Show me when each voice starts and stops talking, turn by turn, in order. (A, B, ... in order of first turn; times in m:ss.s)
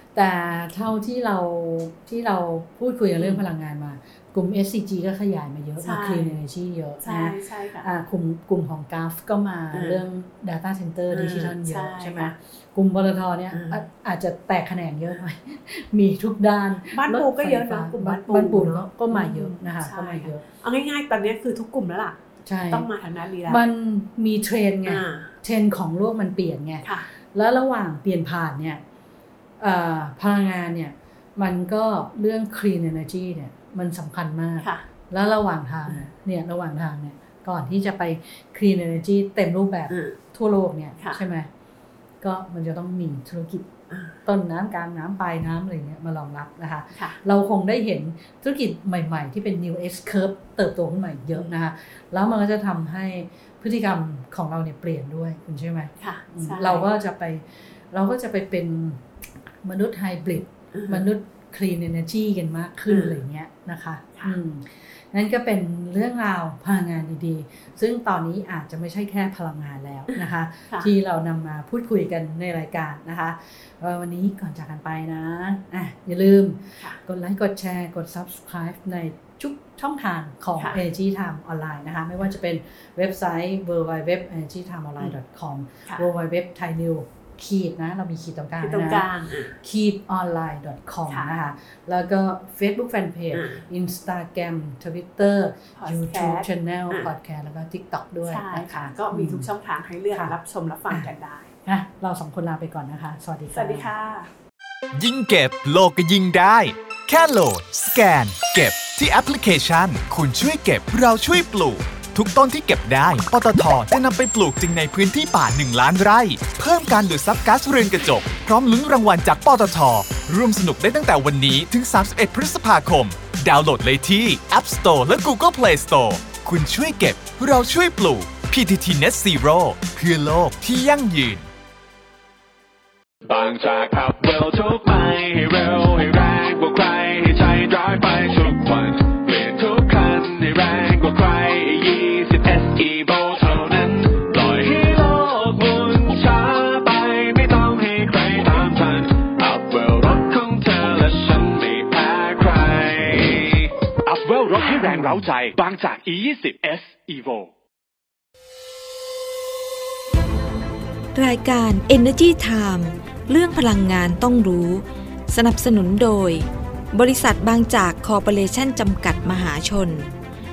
0:00.1-0:20.4 A
0:05.8-0:06.4 B
0:07.0-0:07.9 B
0:09.7-0:10.0 B
0:11.1-0:12.3 B
0:13.5-0:13.8 B
0:16.9-0:22.2 B
0:22.4-0:22.9 A
0:22.7-0:23.6 B
0:23.5-0:28.8 A
0:24.8-0:25.3 B
0:26.8-0:27.1 B
0:29.6-0:41.5 A
0:39.9-0:40.2 B
0:42.2-0:43.7 A
0:43.9-0:44.1 B
0:44.2-0:59.0 A
0:56.0-0:56.9 B
0:59.6-1:29.1 A
1:00.7-1:01.0 B
1:02.9-1:03.2 B
1:10.1-1:10.9 B
1:28.6-1:29.6 B
1:29.6-1:39.5 A
1:33.3-1:33.6 B
1:35.8-1:37.1 B
1:38.3-1:41.5 B
1:41.6-1:43.9 A
1:43.5-1:44.3 B
1:44.9-2:11.5 C
2:13.2-2:37.5 D
2:41.1-2:50.1 E